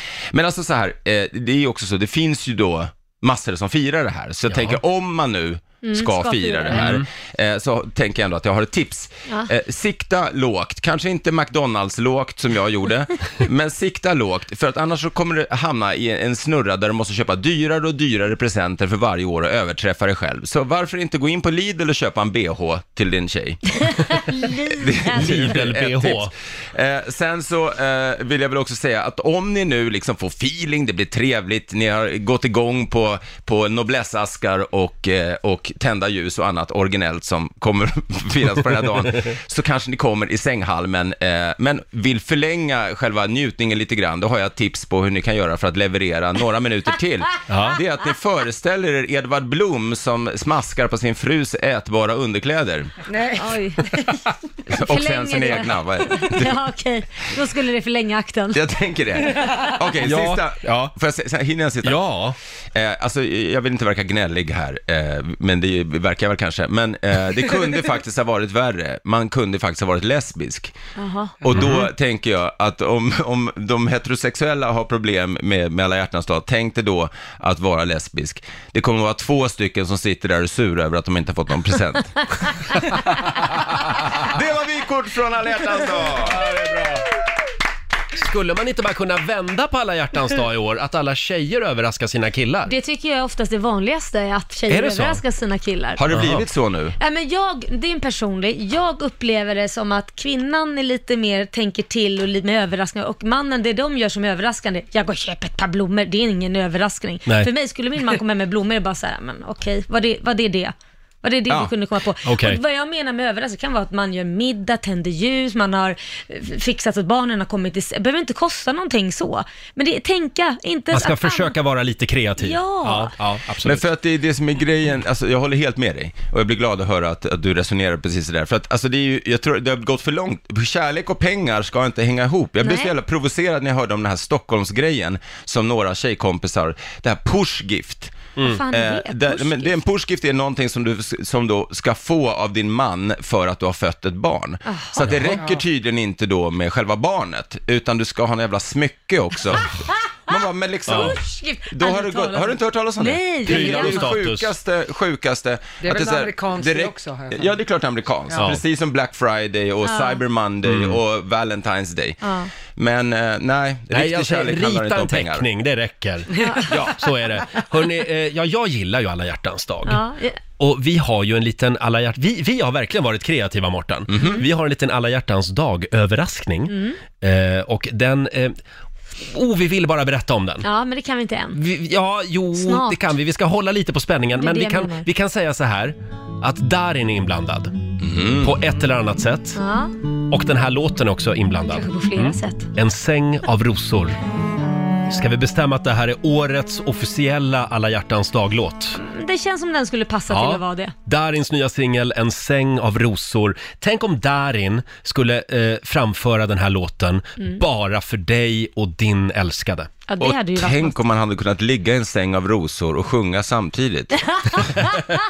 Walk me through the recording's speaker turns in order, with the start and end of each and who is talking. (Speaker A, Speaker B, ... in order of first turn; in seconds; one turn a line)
Speaker A: 0.3-52.9
Speaker B: 4.5-4.8
Speaker C: 5.8-6.9
Speaker B: 6.7-7.0
Speaker C: 24.3-25.2
Speaker B: 25.1-26.3
Speaker B: 47.5-47.8
Speaker D: 53.1-53.5
Speaker C: 53.4-58.6
Speaker A: 54.7-56.6
Speaker A: 58.5-62.0
Speaker B: 60.0-60.9
Speaker B: 61.8-62.4
Speaker A: 62.7-70.7
Speaker C: 71.0-71.4
Speaker A: 71.4-82.8
Speaker B: 71.6-71.8
Speaker A: 83.8-86.5
Speaker B: 86.4-87.0
Speaker B: 88.2-92.7
Speaker C: 92.7-96.0
Speaker B: 94.7-95.2
Speaker A: 96.0-97.0
Speaker B: 96.1-96.4
Speaker C: 97.0-121.5
Speaker B: 112.2-112.6
Speaker B: 120.9-123.9
Speaker C: 122.4-123.1
Speaker A: 123.6-138.2
Speaker C: 132.6-132.9
Speaker B: 138.4-138.6
Speaker C: 138.4-139.8
Speaker A: 138.7-165.4
Speaker C: 144.7-145.1
Speaker B: 145.1-145.4
Speaker B: 150.9-151.2
Speaker C: 150.9-154.1
Speaker B: 153.4-154.5
Speaker D: 155.8-157.5
Speaker B: 158.3-158.6
Speaker C: 159.8-160.2
Speaker B: 160.7-161.0
Speaker C: 162.2-162.5
Speaker B: 163.9-170.0
Speaker C: 166.4-166.7
Speaker A: 166.7-167.0
Speaker C: 169.9-170.4
Speaker B: 170.6-178.6
Speaker A: 174.1-174.4
Speaker C: 176.7-177.0
Speaker B: 179.2-180.7
Speaker C: 180.6-181.6
Speaker B: 181.5-187.7
Speaker C: 182.6-183.1
Speaker C: 184.4-185.1
Speaker A: 188.0-188.6
Speaker B: 188.4-189.6
Speaker C: 189.6-189.9
Speaker B: 190.3-194.2
Speaker C: 191.7-192.7
Speaker B: 195.1-199.0
Speaker C: 199.0-200.9
Speaker B: 200.3-209.9
Speaker C: 210.1-210.9
Speaker A: 210.2-214.9